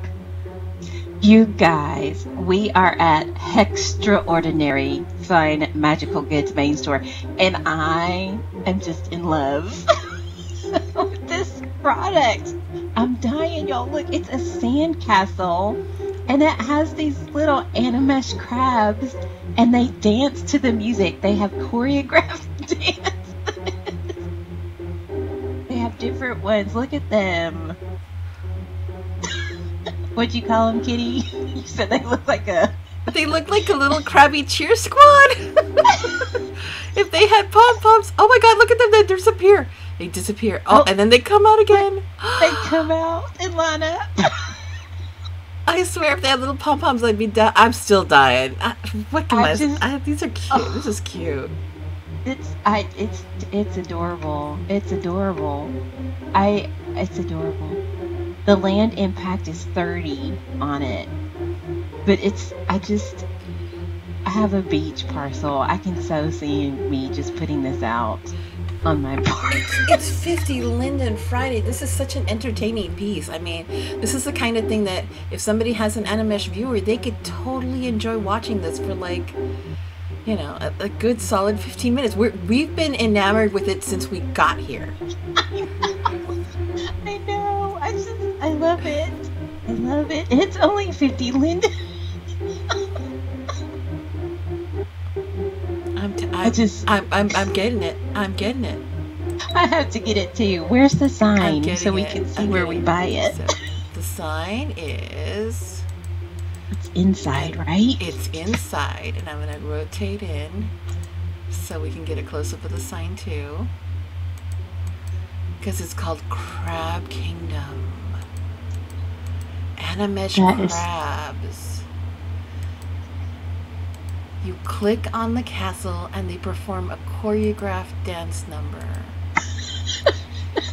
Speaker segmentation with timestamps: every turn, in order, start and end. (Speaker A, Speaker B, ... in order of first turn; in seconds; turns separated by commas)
Speaker A: 1.2-9.8, Speaker A: 11.0-23.3, Speaker A: 25.7-27.8, Speaker A: 30.1-32.8, Speaker B: 33.1-35.3, Speaker B: 36.9-42.7, Speaker A: 42.4-44.1, Speaker B: 45.7-51.5, Speaker A: 49.3-49.8, Speaker A: 50.5-50.9, Speaker A: 52.2-55.7, Speaker A: 56.3-57.8, Speaker A: 58.5-61.1, Speaker A: 62.0-63.2, Speaker A: 64.2-68.3, Speaker A: 68.8-70.0, Speaker B: 69.5-79.4, Speaker B: 80.2-85.0, Speaker A: 85.4-85.7, Speaker A: 87.0-91.6, Speaker B: 96.0-98.8, Speaker A: 96.4-97.4, Speaker A: 99.5-103.5, Speaker B: 101.4-105.8, Speaker A: 106.7-108.2, Speaker B: 107.3-110.7, Speaker B: 111.5-113.7, Speaker B: 115.6-118.2, Speaker B: 119.8-121.8, Speaker A: 120.3-120.8, Speaker B: 124.4-129.2